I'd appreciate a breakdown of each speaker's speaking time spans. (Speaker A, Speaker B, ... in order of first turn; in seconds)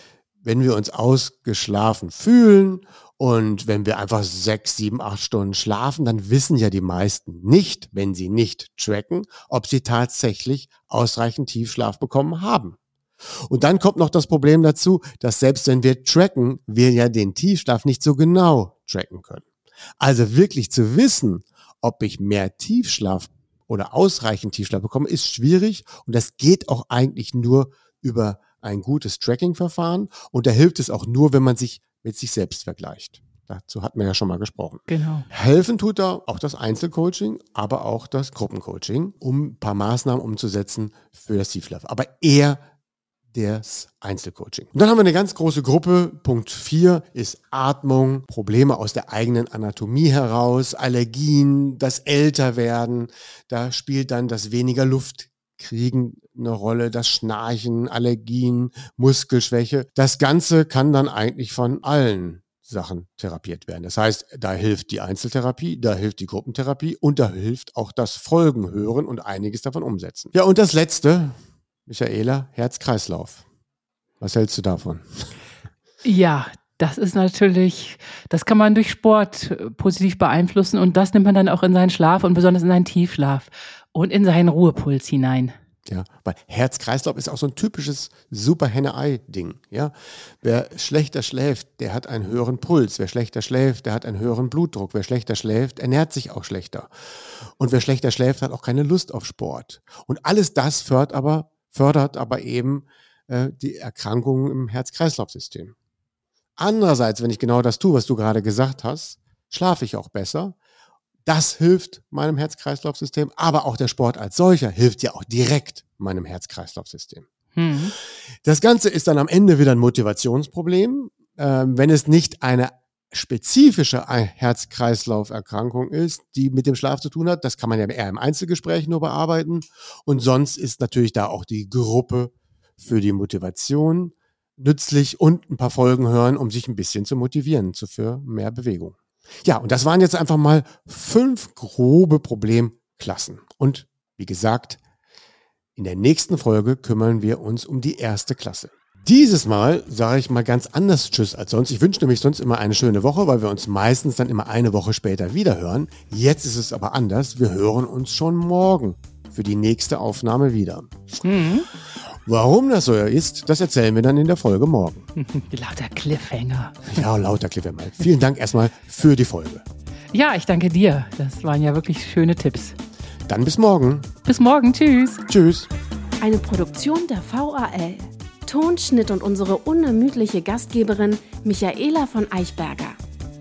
Speaker A: 0.4-12.8, 13.5-19.4, 20.0-42.6, 43.3-73.4, 74.2-75.3, 85.9-96.9, 97.6-105.7, 106.6-110.5, 111.2-117.2, 118.4-144.8, 145.8-161.2, 162.1-165.1, 166.9-169.6, 173.3-174.1, 175.3-175.7
Speaker B: 34.9-35.3, 76.0-85.5, 117.5-117.9, 161.2-161.7, 165.2-167.0, 170.1-172.8, 174.2-175.2
Speaker C: 176.2-183.0